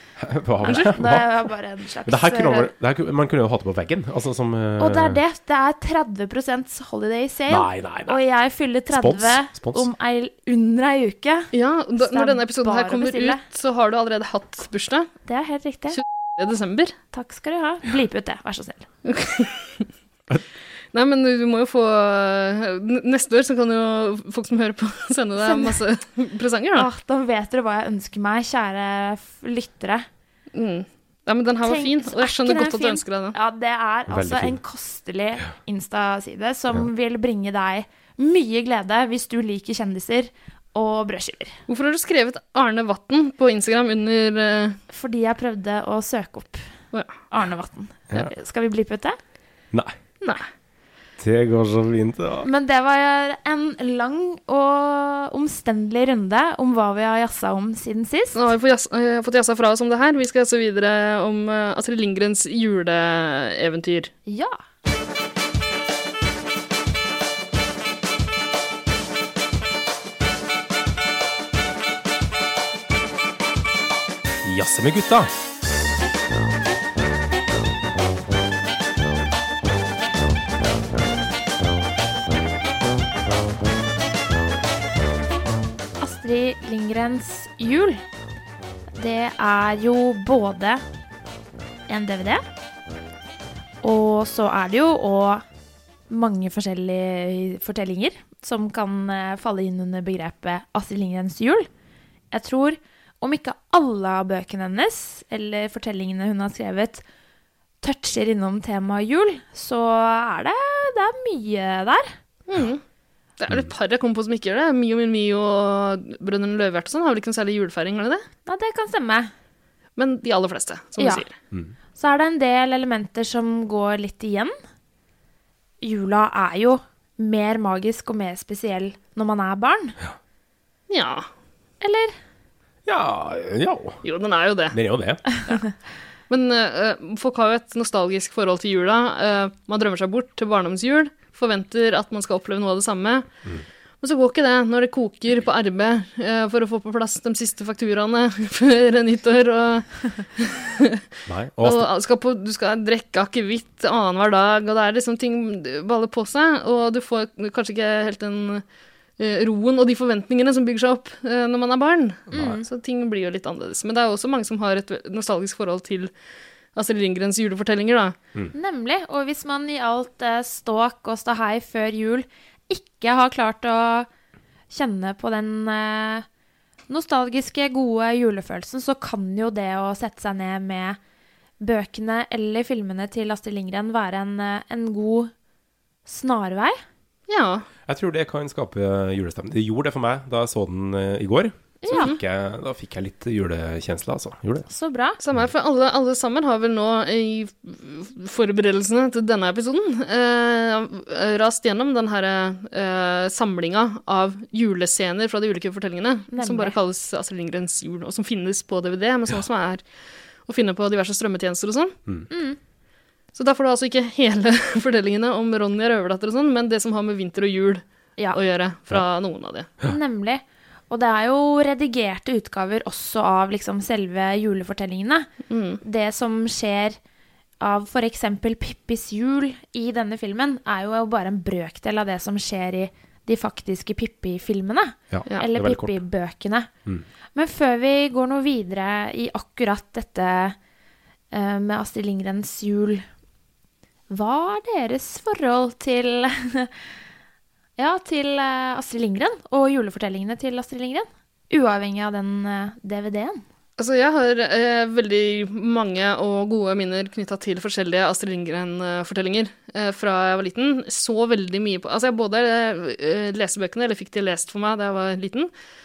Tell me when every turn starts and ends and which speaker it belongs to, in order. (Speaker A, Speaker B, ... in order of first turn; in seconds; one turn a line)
Speaker A: 0.2-1.3
Speaker B: 0.6-2.7
Speaker A: 2.0-5.2
Speaker B: 4.8-13.4
Speaker A: 7.5-8.2
Speaker A: 8.9-9.9
Speaker C: 11.5-15.1
Speaker B: 15.3-16.0
Speaker C: 15.9-16.9
Speaker B: 17.1-18.9
Speaker C: 19.1-19.9
Speaker C: 20.9-26.9
Speaker B: 25.4-25.8
Speaker B: 26.8-30.1
Speaker C: 30.5-33.3
Speaker B: 31.6-41.6
Speaker A: 34.1-34.6
Speaker C: 41.7-44.8
Speaker B: 44.9-46.6
Speaker B: 47.3-49.2
Speaker A: 51.2-52.5
Speaker B: 52.4-58.4
Speaker C: 58.3-64.1
Speaker B: 64.3-64.6
Speaker A: 74.4-75.3
Speaker B: 86.0-88.0
Speaker B: 88.9-90.8
Speaker B: 91.9-92.4
Speaker B: 93.8-95.4
Speaker B: 96.1-101.7
Speaker B: 102.3-107.0
Speaker B: 107.8-112.1
Speaker C: 112.5-112.8
Speaker C: 113.4-118.2
Speaker B: 118.5-119.3
Speaker C: 120.0-121.3
Speaker B: 121.0-121.2
Speaker B: 122.0-124.5
Speaker B: 125.8-130.0
Speaker C: 130.9-131.3
Speaker B: 131.8-132.1
Speaker A: 132.9-134.0
Speaker C: 134.0-134.8
Speaker A: 134.7-135.2
Speaker C: 136.3-143.3
Speaker C: 144.0-151.0
Speaker A: 151.3-151.9
Speaker C: 151.6-158.6
Speaker C: 159.2-166.1
Speaker A: 162.3-162.6
Speaker B: 162.3-162.6
Speaker C: 166.7-168.2
Speaker B: 168.5-174.1
Speaker B: 174.7-176.2
Speaker B: 176.9-181.0
Speaker B: 181.6-185.3
Speaker B: 186.1-186.8
Speaker C: 187.3-187.7
Speaker A: 187.9-194.7
Speaker B: 191.8-192.1
Speaker C: 191.9-192.2
Speaker B: 194.7-195.2
Speaker C: 195.2-209.8
Speaker B: 206.3-206.8
Speaker C: 210.4-211.9
Speaker B: 212.3-212.6
Speaker C: 213.3-219.7
Speaker B: 219.8-227.0
Speaker C: 225.5-225.8
Speaker B: 227.6-236.7
Speaker A: 235.1-236.0
Speaker B: 237.3-240.6
Speaker B: 241.3-243.1
Speaker B: 244.1-246.7
Speaker B: 247.8-253.4
Speaker C: 253.8-265.5